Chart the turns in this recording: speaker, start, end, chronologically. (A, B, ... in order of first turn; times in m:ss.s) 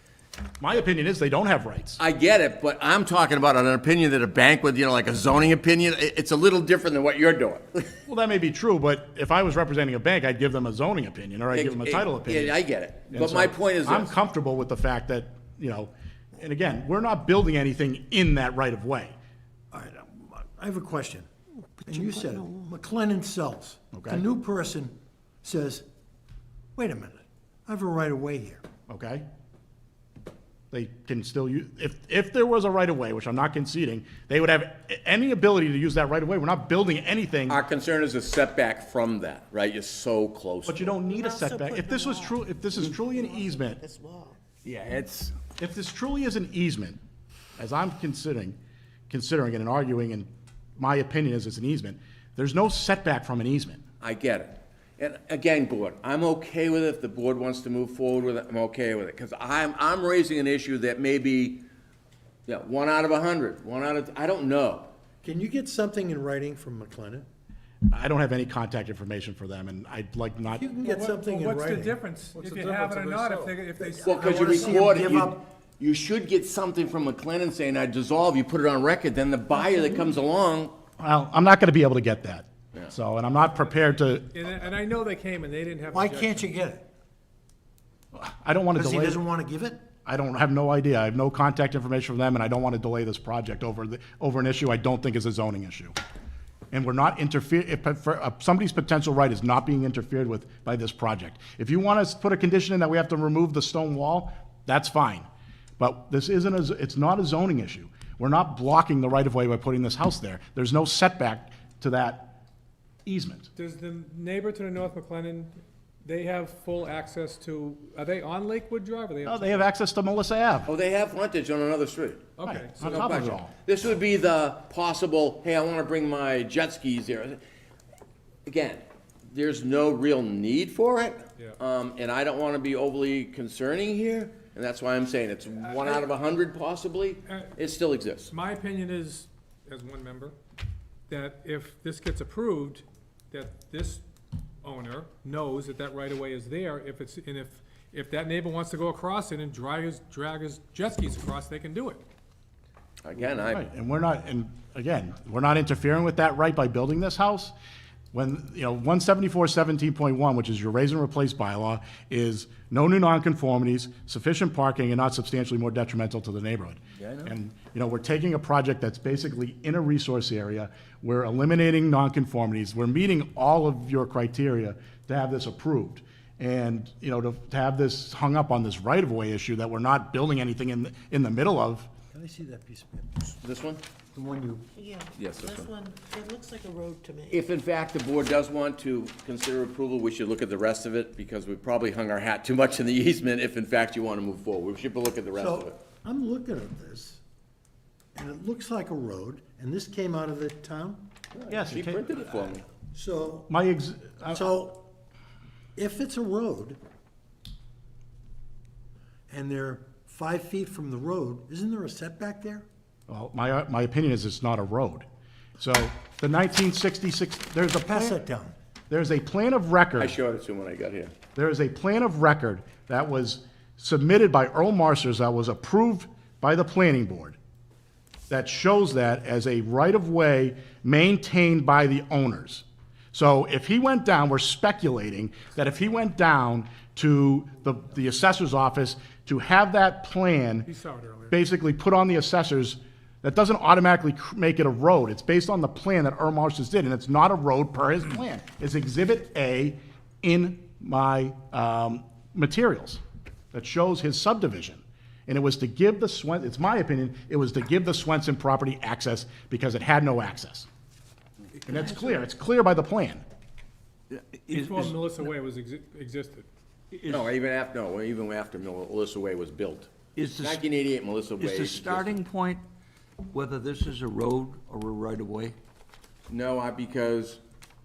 0:00.6-0:02.0 A
0:02.0-0:08.0 B
0:08.0-0:12.6 A
0:11.5-0:14.1 B
0:13.1-0:19.2 A
0:19.7-0:21.3 C
0:21.8-0:22.7 D
0:21.8-0:25.8 C
0:23.9-0:24.2 A
0:26.8-0:28.6 C
0:28.9-0:29.2 A
0:30.7-0:37.6 A
0:37.5-0:40.9 B
0:40.7-0:43.8 A
0:41.0-0:44.4 D
0:44.6-0:45.3 B
0:45.6-0:47.0 A
0:47.6-0:48.6 A
0:49.1-0:53.8 A
0:54.0-1:01.6 B
1:02.5-1:04.9 B
1:05.2-1:07.2 C
1:07.9-1:10.7 A
1:10.5-1:12.0 C
1:10.8-1:14.8 E
1:12.4-1:13.5 F
1:13.8-1:15.4 C
1:14.0-1:20.8 B
1:21.0-1:24.3 A
1:24.3-1:26.5 E
1:25.9-1:26.8 C
1:28.1-1:29.2 A
1:28.7-1:29.8 C
1:30.0-1:35.9 A
1:36.7-1:45.3 A
1:45.8-1:52.3 A
1:53.0-1:53.5 A
1:53.6-1:59.7 E
1:59.2-2:00.7 A
2:00.7-2:02.3 B
2:02.4-2:03.1 E
2:02.4-2:03.5 A
2:02.8-2:07.4 B
2:08.4-2:18.3 B
2:17.2-2:17.5 E
2:18.3-2:20.4 E
2:21.1-2:24.0 E
2:24.6-2:32.0 E
2:33.0-2:33.7 B
2:33.3-2:37.5 A
2:38.1-3:01.9 A
3:02.1-3:03.4 C
3:03.4-3:03.8 B
3:04.1-3:04.7 C
3:04.7-3:07.4 D
3:05.2-3:05.7 B
3:07.3-3:15.8 B
3:15.3-3:17.2 C
3:18.1-3:21.6 C
3:21.5-3:22.0 A
3:21.7-3:22.6 B
3:22.9-3:23.5 C
3:23.5-3:24.5 A
3:24.3-3:24.9 C
3:25.8-3:26.8 C
3:29.3-3:32.6 C
3:33.1-3:35.0 A
3:35.6-3:38.2 A
3:37.9-3:38.5 C
3:38.9-3:40.2 A
3:40.0-3:41.1 B
3:41.3-3:47.4 A
3:48.3-4:00.7 A
4:00.6-4:01.4 E
4:01.3-4:13.0 A
4:13.5-4:20.7 A
4:21.6-4:23.2 A
4:21.7-4:22.1 F
4:24.1-4:25.0 F
4:24.5-4:26.5 E
4:26.9-4:27.3 F
4:27.1-4:32.2 B
4:30.2-4:30.6 F
4:31.4-4:32.6 F
4:33.3-4:35.6 F
4:36.3-4:37.4 B